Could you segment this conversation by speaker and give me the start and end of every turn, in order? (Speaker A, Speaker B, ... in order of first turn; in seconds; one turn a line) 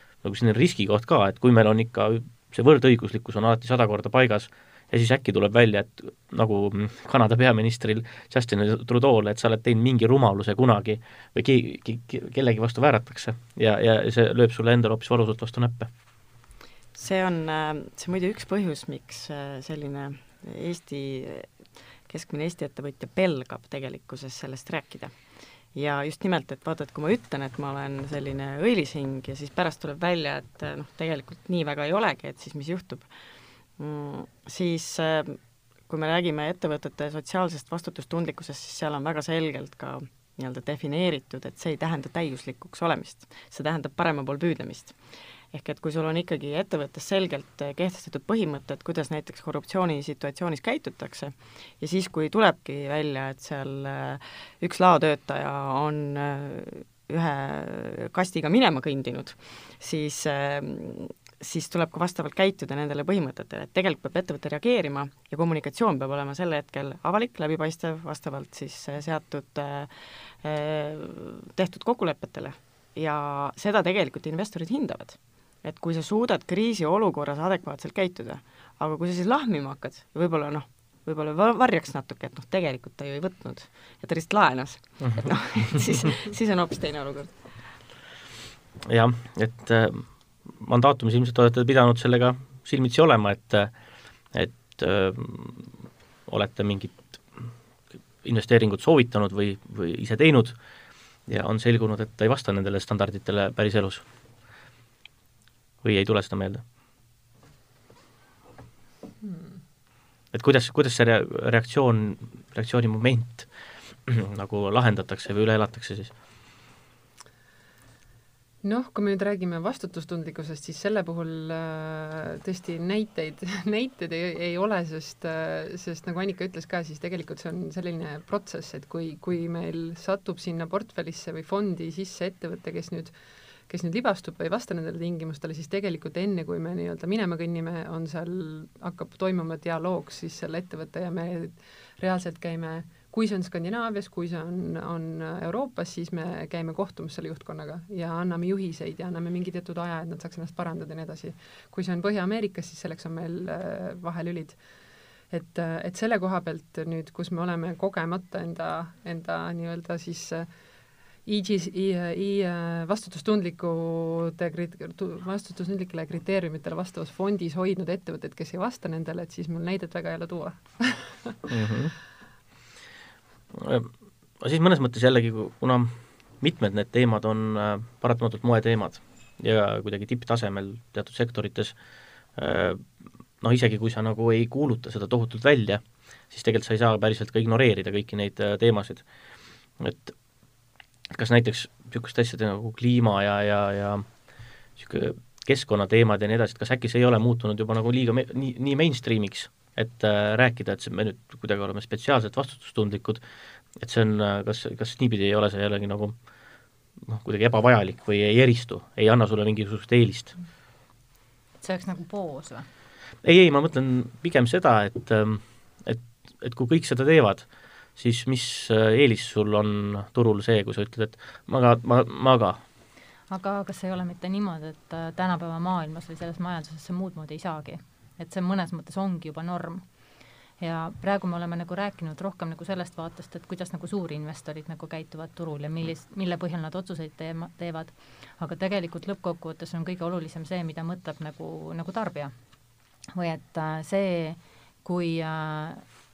Speaker A: 0.2-15.9
Speaker B: 16.9-21.5
Speaker B: 22.1-25.1
Speaker B: 25.7-33.1
Speaker B: 33.8-45.0
Speaker B: 45.5-69.9
Speaker B: 70.4-87.5
Speaker A: 88.9-93.7
Speaker A: 94.3-95.8
Speaker A: 96.3-97.5
Speaker A: 98.2-100.5
Speaker A: 101.3-104.0
Speaker A: 105.8-106.6
Speaker C: 109.2-109.6
Speaker A: 110.3-113.5
Speaker A: 114.0-116.1
Speaker C: 118.6-133.1
Speaker C: 133.7-154.6
Speaker C: 155.3-160.5
Speaker C: 161.2-171.4
Speaker A: 171.5-171.9
Speaker A: 173.5-181.8
Speaker A: 182.3-189.1
Speaker A: 189.8-190.2
Speaker A: 191.1-194.1
Speaker A: 194.8-203.2
Speaker A: 203.8-206.2
Speaker A: 207.0-210.3
Speaker D: 211.6-212.7
Speaker A: 213.2-222.6
Speaker D: 223.3-229.8
Speaker D: 230.6-242.3
Speaker D: 243.1-245.9